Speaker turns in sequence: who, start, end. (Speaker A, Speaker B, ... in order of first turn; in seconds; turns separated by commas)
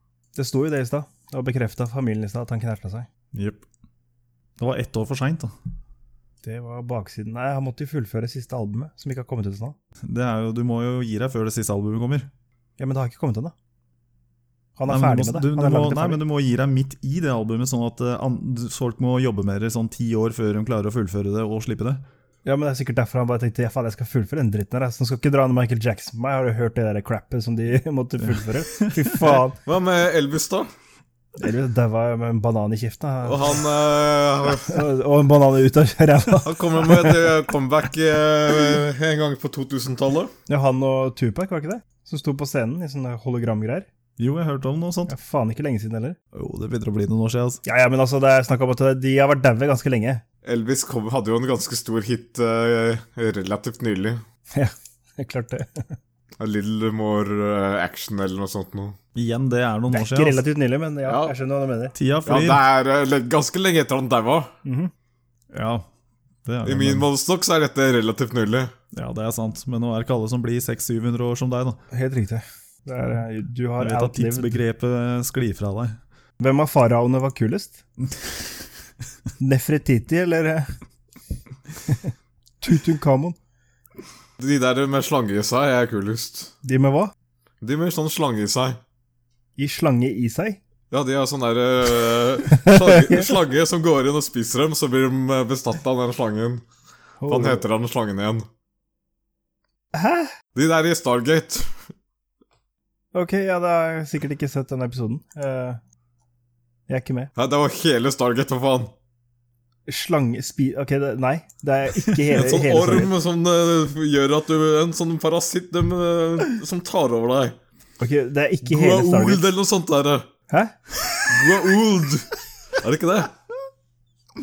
Speaker A: 0.3-3.1, Speaker B: 3.3-3.6, Speaker B: 4.6-5.5, Speaker A: 6.4-9.8, Speaker B: 10.0-12.3, Speaker A: 12.8-13.5, Speaker A: 14.8-16.2, Speaker B: 14.9-22.0, Speaker A: 22.4-29.6, Speaker C: 29.5-30.7, Speaker A: 31.4-33.6, Speaker C: 33.2-34.8, Speaker A: 34.6-37.2, Speaker C: 36.4-40.3, Speaker A: 40.5-43.9, Speaker B: 44.2-45.1, Speaker A: 45.1-46.2, Speaker B: 46.3-47.6, Speaker A: 47.6-50.2, Speaker C: 50.4-54.2, Speaker A: 54.5-56.0, Speaker C: 56.4-59.0, Speaker B: 59.1-60.4, Speaker A: 59.9-61.9, Speaker C: 61.0-61.3, Speaker B: 61.9-62.6, Speaker C: 62.2-64.5, Speaker A: 64.6-64.9, Speaker B: 65.5-65.9, Speaker B: 66.4-67.0, Speaker C: 66.6-68.7, Speaker B: 68.9-71.8, Speaker A: 71.9-74.6, Speaker B: 73.8-76.0, Speaker A: 76.4-77.8, Speaker A: 79.4-80.7, Speaker A: 81.9-83.4, Speaker C: 84.4-86.5, Speaker A: 86.6-87.1, Speaker C: 87.6-88.8, Speaker A: 89.6-90.6, Speaker C: 90.9-96.6, Speaker A: 92.5-93.3, Speaker A: 97.2-97.6, Speaker C: 97.3-98.5, Speaker A: 99.9-100.3, Speaker C: 100.5-101.7, Speaker A: 103.1-105.8, Speaker A: 106.9-107.3, Speaker C: 107.3-108.9, Speaker A: 109.9-113.1, Speaker C: 112.3-117.5, Speaker A: 118.0-119.5, Speaker C: 118.6-120.3, Speaker A: 120.5-120.7, Speaker C: 121.2-123.3